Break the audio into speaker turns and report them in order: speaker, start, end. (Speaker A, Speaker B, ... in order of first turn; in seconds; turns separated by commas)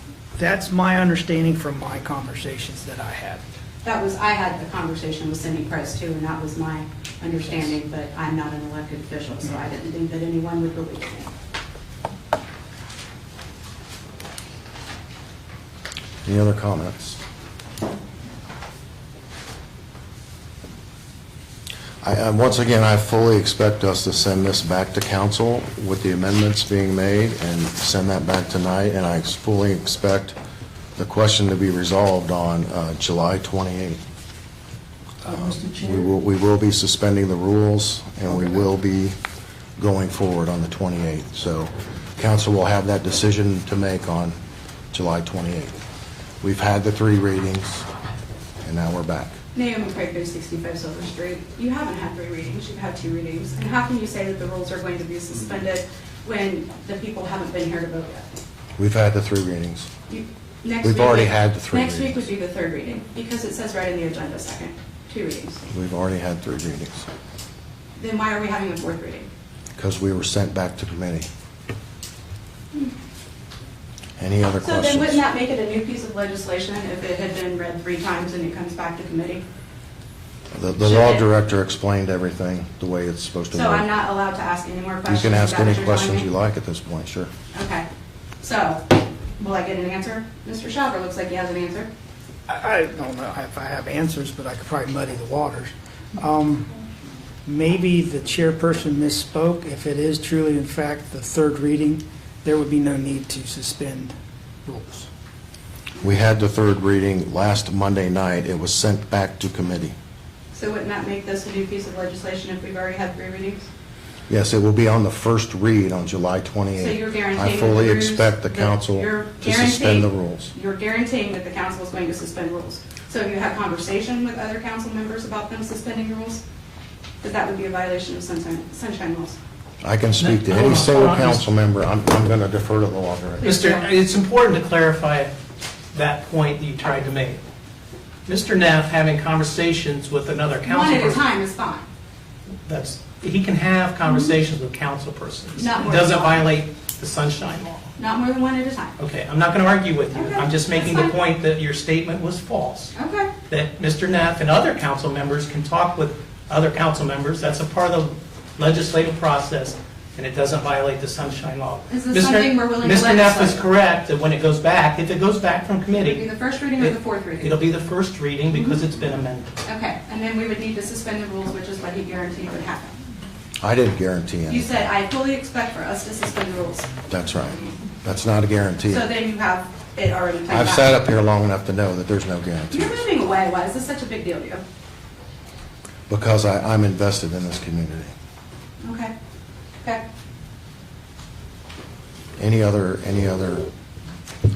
Speaker A: 0.4-3.4, Speaker B: 3.8-11.3, Speaker C: 16.2-17.2, Speaker C: 22.0-30.4, Speaker C: 31.0-34.0, Speaker A: 35.3-36.1, Speaker C: 35.3-39.1, Speaker C: 39.8-44.4, Speaker C: 44.9-45.8, Speaker C: 46.4-47.9, Speaker C: 48.6-49.4, Speaker B: 49.5-58.3, Speaker C: 58.8-59.9, Speaker B: 60.1-65.6, Speaker C: 60.8-62.3, Speaker C: 65.7-67.0, Speaker B: 68.0-69.3, Speaker C: 69.8-71.3, Speaker C: 74.2-75.2, Speaker B: 74.6-79.4, Speaker C: 80.5-83.9, Speaker B: 80.8-81.3, Speaker B: 83.5-86.3, Speaker C: 85.1-87.3, Speaker B: 87.5-87.9, Speaker B: 88.4-91.9, Speaker A: 92.5-96.7, Speaker A: 97.5-104.1, Speaker A: 104.7-105.1, Speaker C: 106.0-110.0, Speaker B: 110.5-113.7, Speaker C: 114.3-120.5, Speaker B: 116.8-126.4, Speaker B: 127.2-129.4, Speaker C: 129.8-133.5, Speaker D: 130.2-131.4, Speaker B: 133.4-133.9, Speaker D: 133.4-135.3, Speaker D: 135.9-137.4, Speaker D: 138.3-141.2, Speaker B: 140.7-141.9, Speaker D: 142.7-147.8, Speaker B: 144.1-144.3, Speaker B: 145.6-146.5, Speaker B: 148.0-149.0, Speaker D: 149.0-152.9, Speaker B: 150.1-151.2, Speaker B: 152.9-153.3, Speaker D: 153.5-166.2, Speaker B: 161.9-163.6, Speaker B: 165.9-167.6, Speaker D: 166.8-169.5, Speaker B: 169.7-173.0, Speaker C: 173.6-174.8, Speaker B: 174.5-176.9, Speaker C: 177.1-179.0, Speaker B: 178.9-181.0, Speaker C: 180.5-183.0, Speaker B: 182.7-184.6, Speaker C: 186.1-188.1, Speaker B: 188.8-189.1, Speaker C: 192.4-193.7